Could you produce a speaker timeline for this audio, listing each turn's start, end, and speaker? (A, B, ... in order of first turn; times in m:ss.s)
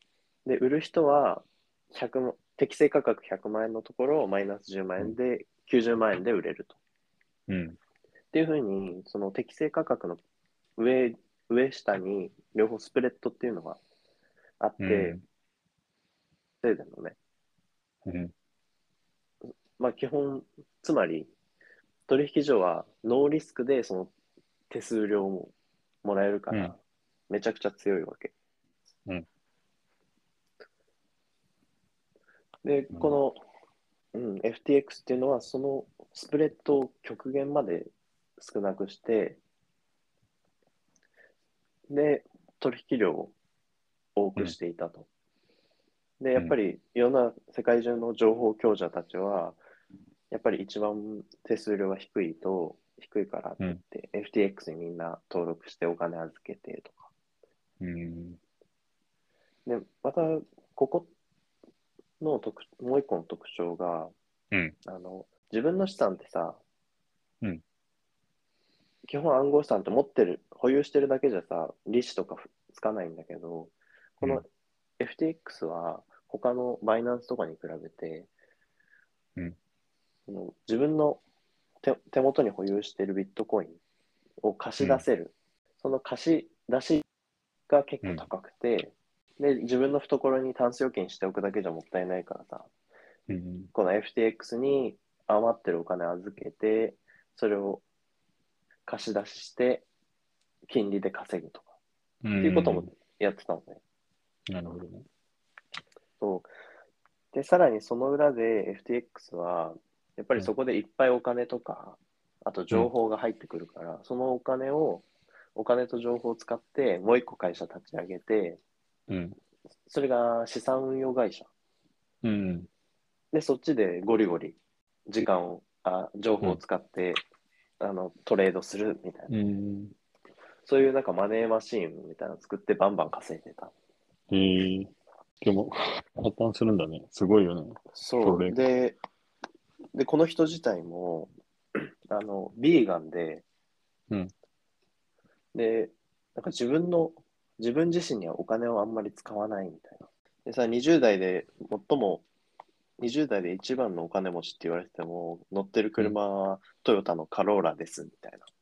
0:00.4-0:06.8 A
0:07.5-0:07.8 B
0:08.3-0:10.2 A
0:10.8-0:13.8 A
0:14.6-0:15.2 A
0:14.8-0:15.2 B
0:16.6-0:17.2 A
0:18.0-0:18.3 B
0:19.8-0:21.3 A
0:22.1-0:24.1 A
0:24.7-0:28.3 A
0:32.6-0:33.4 A
0:34.1-0:39.4 A
0:41.9-0:43.3 A
0:44.2-0:45.1 A
0:46.2-0:49.6 A
0:50.3-0:57.1 A
0:57.8-0:58.4 B
0:59.6-1:01.1 A
1:02.2-1:04.1 A
1:04.8-1:06.6 A
1:09.1-1:14.4 A
1:14.2-1:14.4 B
1:15.0-1:18.3 A
1:20.3-1:21.2 A
1:21.8-1:23.8 A
1:24.4-1:27.0 A
1:24.8-1:25.0 B
1:27.7-1:32.7 A
1:33.3-1:33.7 B
1:33.7-1:37.8 A
1:38.9-1:39.9 A
1:40.7-1:41.7 A
1:42.2-1:42.9 B
1:42.4-1:43.8 A
1:44.5-1:45.0 B
1:46.2-1:46.5 A
1:47.3-1:58.6 A
1:59.1-1:59.4 B
1:59.9-2:01.5 A
2:02.2-2:02.7 B
2:03.3-2:07.2 A
2:07.8-2:09.3 A
2:09.3-2:09.9 B
2:10.6-2:13.7 A
2:14.3-2:14.9 B
2:15.4-2:18.6 B
2:17.9-2:19.0 A
2:19.9-2:23.4 A
2:25.5-2:32.2 A
2:33.0-2:38.4 A